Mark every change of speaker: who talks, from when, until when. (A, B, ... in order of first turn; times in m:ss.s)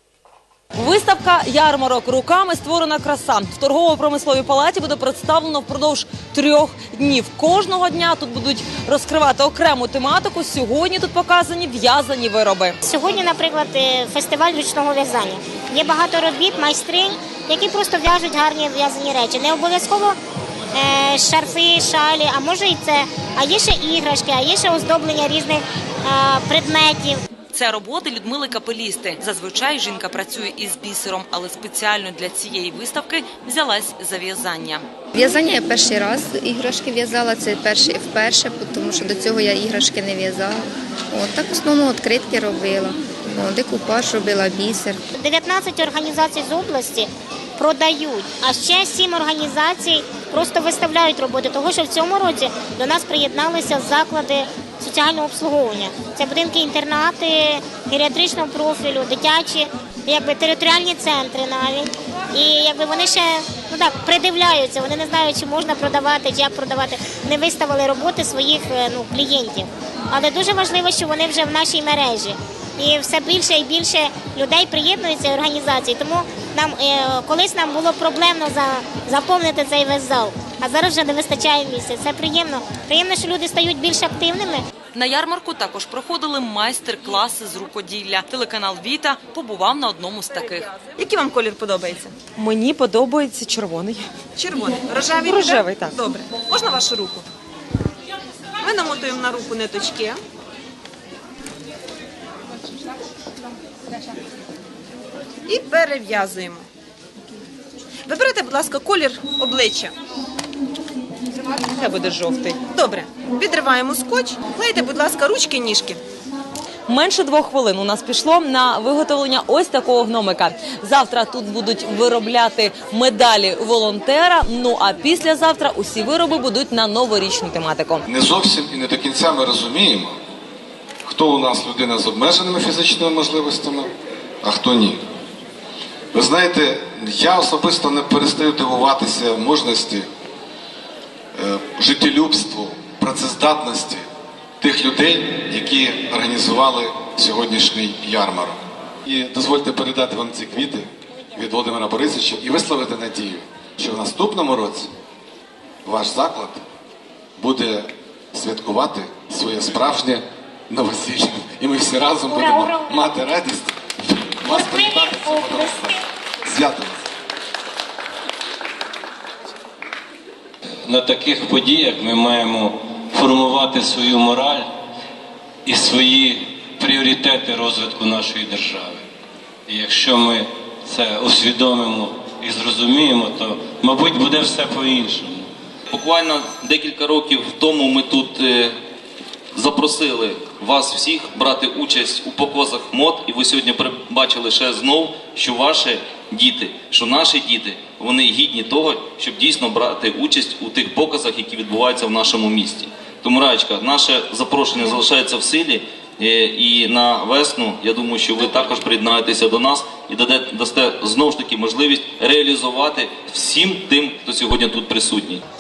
0:00.8-0:12.8 A
0:12.8-0:20.2 B
0:20.7-0:27.2 B
0:27.5-0:34.8 A
0:35.2-0:45.0 C
0:45.2-1:24.6 B
1:25.0-1:30.8 A
1:31.0-1:32.1 D
1:32.2-1:34.1 A
1:34.4-1:37.2 D
1:35.2-1:36.0 A
1:38.6-1:40.2 D
1:45.5-1:46.7 D
1:48.1-1:49.9 D
1:51.7-1:52.6 A
1:52.7-1:56.0 D
1:56.9-2:08.1 A
2:08.1-2:10.2 E
2:11.1-2:13.9 E
2:14.4-2:15.0 E
2:16.1-2:20.1 E
2:21.4-2:24.0 E
2:24.6-2:34.9 E
2:35.8-2:36.6 E
2:37.4-2:47.0 E
2:50.8-2:54.7 F
2:55.6-2:59.0 F
2:59.7-3:05.5 F
3:05.9-3:08.8 G
3:09.5-3:35.4 G